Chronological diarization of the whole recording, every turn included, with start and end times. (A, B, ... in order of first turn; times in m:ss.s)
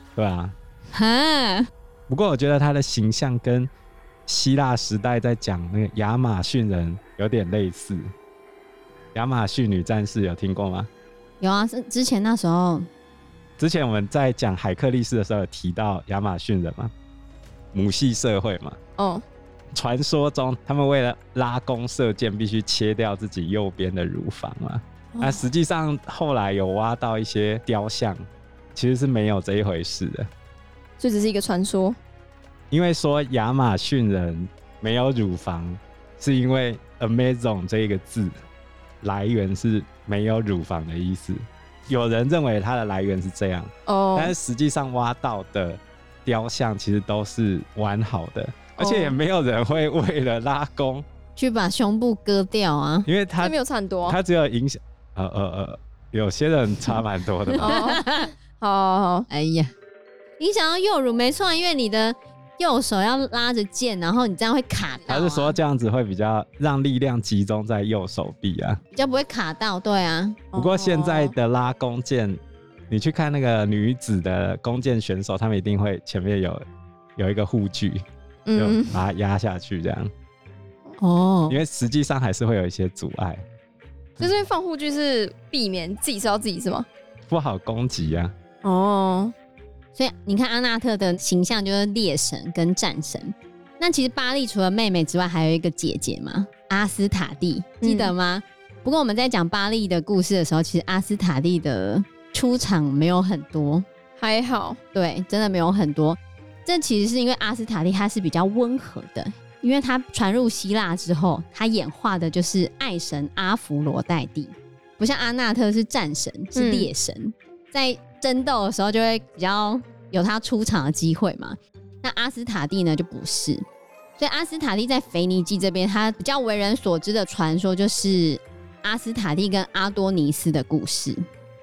0:00.2-0:00.5 A
0:00.9-0:01.7 B
0:02.1-0:03.7 A
0:04.3-0:08.1 A
0:09.1-0:10.9 A
0:11.4-0:12.9 B
0:13.6-0:16.9 A
0:17.7-0:18.8 A
0:19.0-0:19.2 C
0:19.7-0:28.2 A
0:25.2-0:25.4 C
0:28.7-0:30.3 A
0:31.0-0:32.0 C
0:32.7-0:38.3 A
0:39.0-0:51.0 A
0:43.8-0:44.3 C
0:48.8-0:49.2 C
0:51.4-0:53.1 B
0:53.1-0:53.5 A
0:53.4-0:54.2 C
0:54.0-0:57.8 A
0:57.6-0:59.3 C
0:57.7-0:58.3 B
0:59.3-0:59.7 B
1:00.4-1:05.6 B
1:05.1-1:08.8 A
1:08.9-1:10.5 B
1:10.5-1:11.3 C
1:10.5-1:16.6 A
1:17.2-1:18.0 A
1:18.5-1:19.0 C
1:18.6-1:20.1 A
1:21.0-1:21.6 B
1:21.5-1:23.4 A
1:24.2-1:26.9 C
1:27.3-1:28.3 A
1:28.6-1:29.3 C
1:29.9-1:43.8 B
1:37.8-1:38.1 C
1:44.2-1:44.8 C
1:44.9-2:03.6 B
1:56.5-1:56.9 C
2:04.2-2:11.2 B